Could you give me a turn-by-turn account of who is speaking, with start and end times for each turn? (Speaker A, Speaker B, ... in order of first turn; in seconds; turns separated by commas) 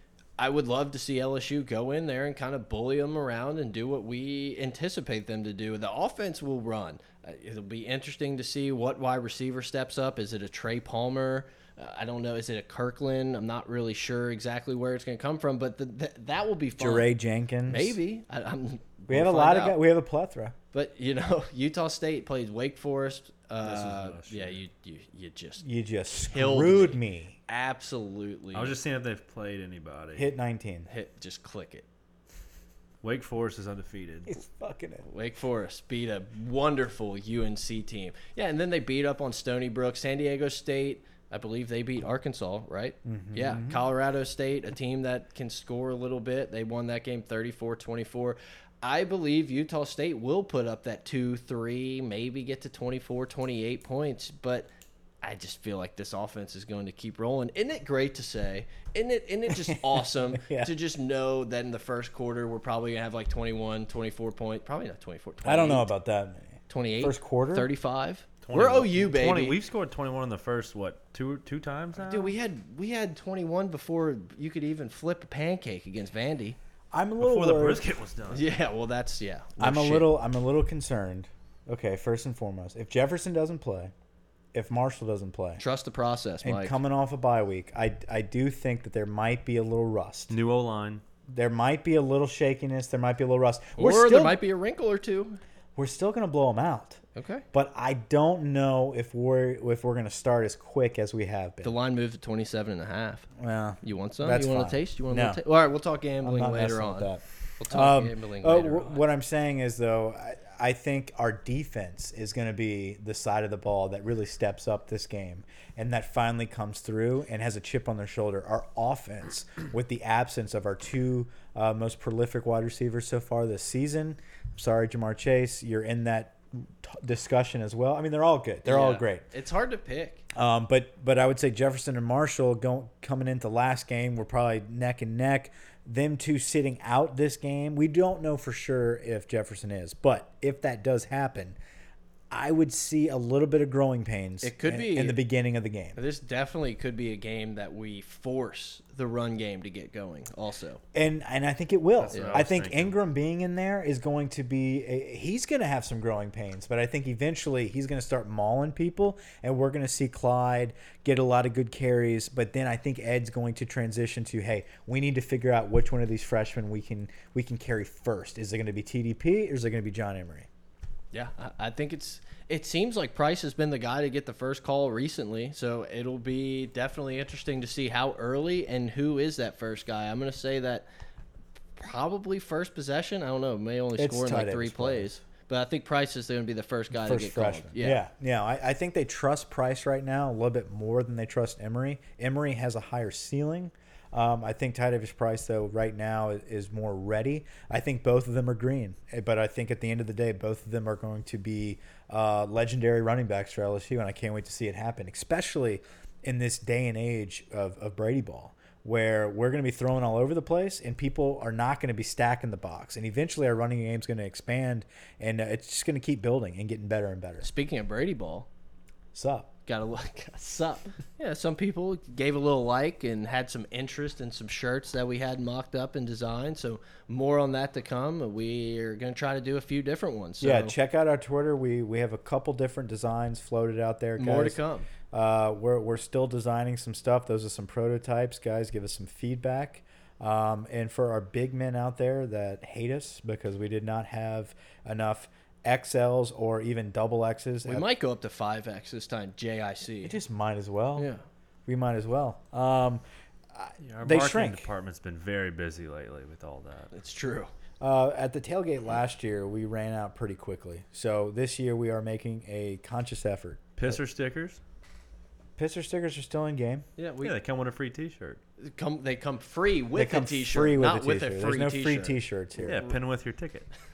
Speaker A: 0.4-17.1, Speaker B: 16.8-18.0, Speaker A: 17.7-19.8, Speaker B: 19.1-20.6, Speaker A: 20.7-25.6, Speaker C: 23.6-24.6, Speaker B: 25.6-27.4, Speaker A: 26.2-28.8, Speaker C: 28.5-30.3, Speaker B: 30.2-30.9, Speaker A: 30.9-31.9, Speaker C: 33.0-34.4, Speaker B: 34.3-35.1, Speaker A: 35.1-54.7, Speaker B: 43.0-43.8, Speaker A: 55.2-65.9, Speaker B: 59.5-60.7, Speaker B: 65.4-67.7, Speaker A: 66.7-69.6, Speaker C: 68.4-72.3, Speaker A: 72.0-76.6, Speaker B: 76.9-77.8, Speaker C: 77.2-78.5, Speaker A: 78.3-80.1, Speaker B: 79.6-83.9, Speaker B: 84.5-85.6, Speaker A: 85.6-86.8, Speaker B: 86.4-90.3, Speaker C: 90.3-91.0, Speaker B: 91.3-94.4, Speaker A: 93.8-95.4, Speaker B: 95.8-97.0, Speaker A: 97.2-97.4, Speaker B: 97.5-101.7, Speaker A: 101.6-103.3, Speaker B: 103.4-105.4, Speaker A: 103.8-107.1, Speaker B: 106.2-129.3, Speaker A: 107.6-109.0, Speaker A: 128.7-130.2, Speaker B: 130.3-141.6, Speaker B: 142.3-146.0, Speaker A: 144.4-145.2, Speaker A: 146.0-150.8, Speaker B: 150.9-170.5, Speaker C: 152.0-153.0, Speaker A: 152.1-152.4, Speaker A: 171.1-180.9, Speaker A: 181.8-188.0, Speaker B: 184.0-185.1, Speaker B: 186.9-217.5, Speaker A: 217.4-218.5, Speaker B: 219.1-219.5, Speaker A: 219.7-230.7, Speaker B: 230.4-234.6, Speaker A: 234.2-234.9, Speaker B: 235.1-247.9, Speaker A: 247.7-250.2, Speaker B: 250.0-251.1, Speaker A: 251.0-251.2, Speaker B: 251.7-253.0, Speaker B: 253.5-254.7, Speaker C: 253.8-256.9, Speaker A: 256.9-257.5, Speaker B: 257.8-264.0, Speaker C: 263.8-264.6, Speaker B: 265.6-266.8, Speaker A: 267.0-267.4, Speaker C: 267.2-268.4, Speaker A: 268.6-272.9, Speaker B: 270.0-272.9, Speaker C: 272.6-273.7